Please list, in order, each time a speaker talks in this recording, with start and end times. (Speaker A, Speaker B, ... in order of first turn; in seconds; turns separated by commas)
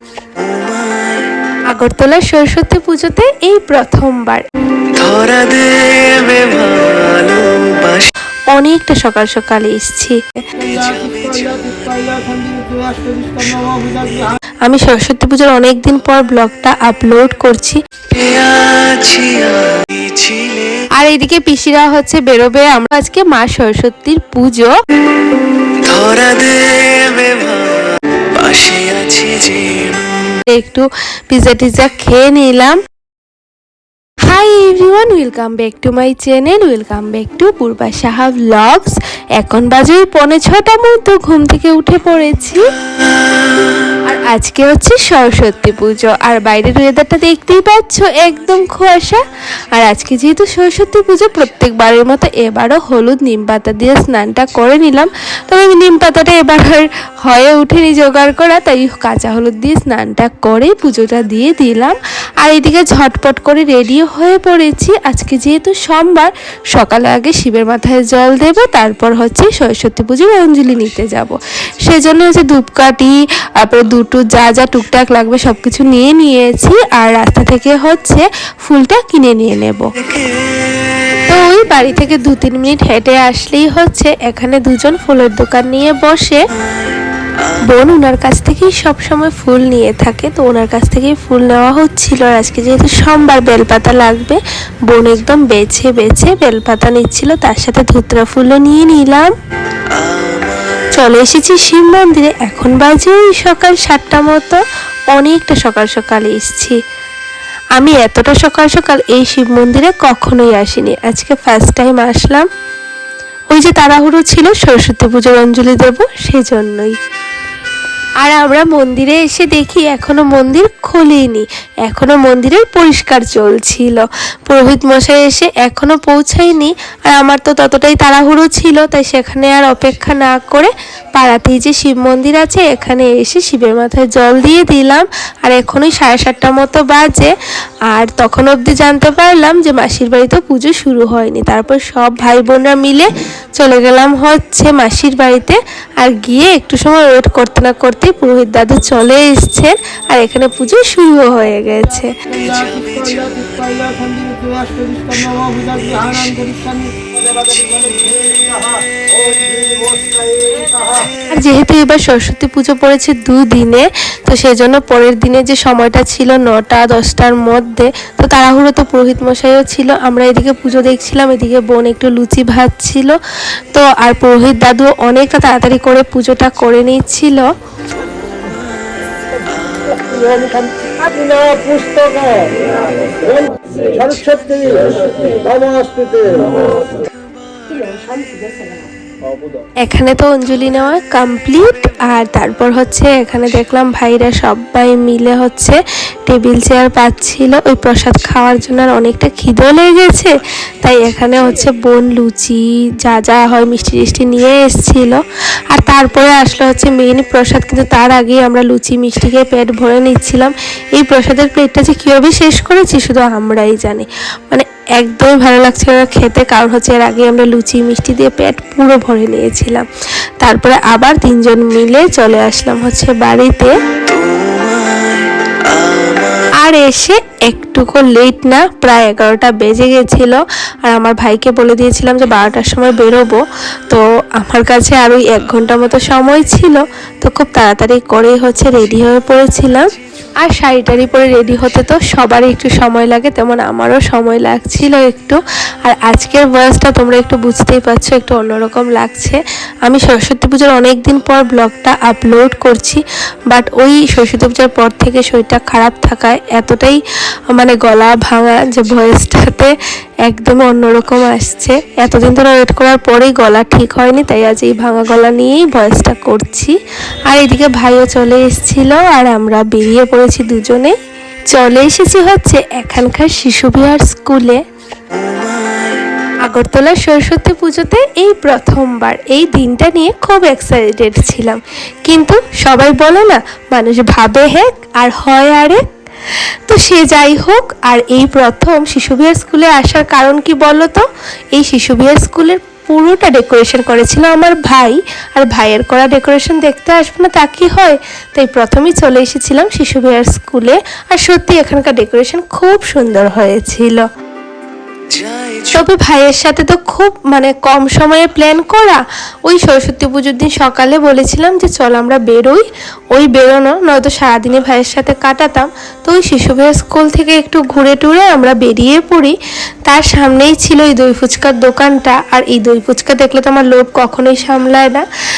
Speaker A: 0.4-1.3, Speaker B: 1.7-4.4, Speaker A: 4.9-8.1, Speaker B: 8.5-10.4, Speaker C: 10.6-14.3, Speaker B: 14.7-17.8, Speaker A: 18.1-20.8, Speaker B: 21.0-24.7, Speaker A: 25.8-30.4, Speaker B: 30.4-32.8, Speaker B: 34.3-42.6, Speaker B: 44.1-49.2, Speaker B: 49.7-79.9, Speaker A: 80.3-81.2, Speaker B: 81.2-86.4, Speaker B: 87.7-99.3, Speaker A: 99.9-100.8, Speaker B: 100.9-104.6, Speaker B: 105.1-106.8, Speaker B: 107.8-112.5, Speaker B: 113.5-117.0, Speaker B: 118.2-137.3, Speaker B: 137.9-152.1, Speaker C: 152.3-161.1, Speaker B: 161.3-173.2, Speaker B: 173.7-177.4, Speaker C: 179.9-186.6, Speaker A: 187.7-188.5, Speaker B: 189.8-219.8, Speaker B: 220.4-223.7, Speaker A: 224.0-226.5, Speaker B: 226.6-239.9, Speaker B: 240.4-257.0, Speaker B: 257.5-259.7, Speaker B: 260.2-266.7, Speaker B: 267.3-270.9, Speaker B: 271.5-274.6, Speaker A: 275.2-275.9, Speaker B: 276.4-285.8, Speaker B: 286.7-304.0, Speaker A: 305.1-305.7, Speaker B: 305.7-325.0